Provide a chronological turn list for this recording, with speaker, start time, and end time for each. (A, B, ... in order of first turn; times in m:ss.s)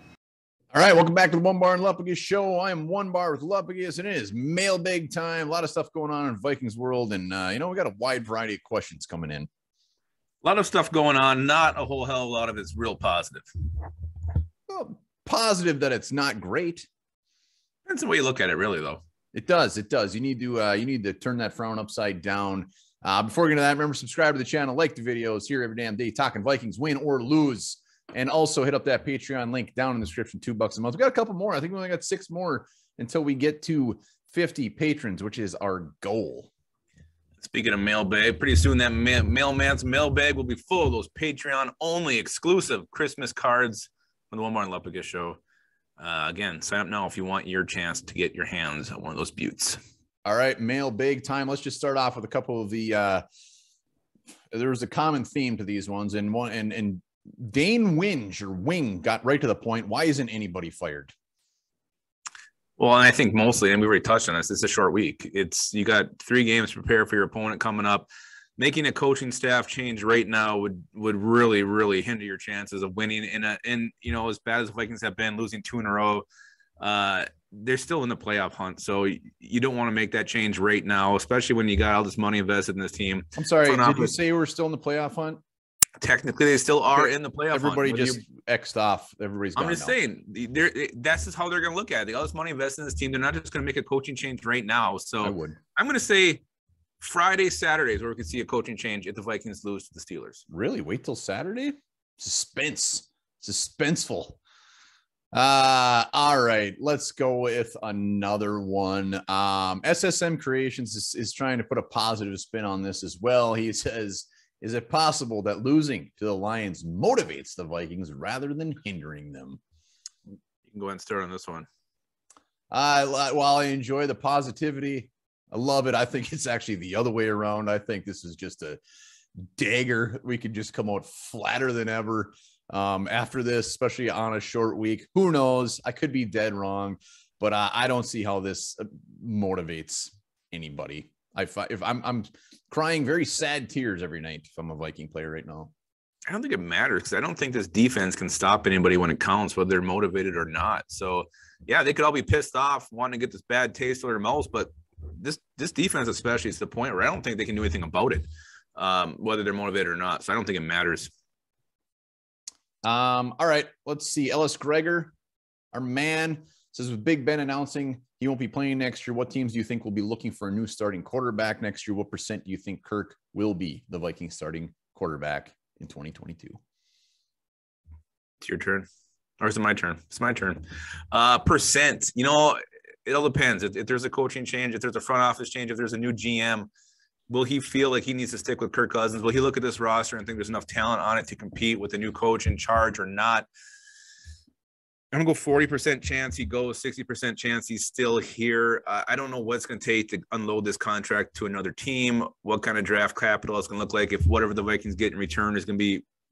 0:00.7-0:09.5 A
0:10.4-0:13.5 B
0:14.7-0:16.9 A
0:17.9-0:19.0 B
0:19.3-0:36.5 A
0:37.4-0:45.4 B
0:46.0-0:49.8 B
0:50.2-0:53.2 A
0:54.5-1:01.1 A
1:02.8-1:16.3 B
1:16.8-1:24.2 B
1:23.4-1:25.4 A
1:26.0-1:28.2 B
1:27.0-1:30.0 A
1:29.6-1:36.4 B
1:35.2-1:35.6 A
1:37.0-1:40.4 B
1:40.5-1:44.4 A
1:45.3-1:59.6 A
2:00.7-2:01.7 B
2:02.7-2:08.8 A
2:09.6-2:25.7 A
2:26.3-2:41.1 B
2:42.8-2:45.1 A
2:45.7-2:56.6 A
2:58.4-2:58.9 B
2:59.4-3:06.7 B
3:07.3-3:13.5 B
3:15.1-3:26.0 B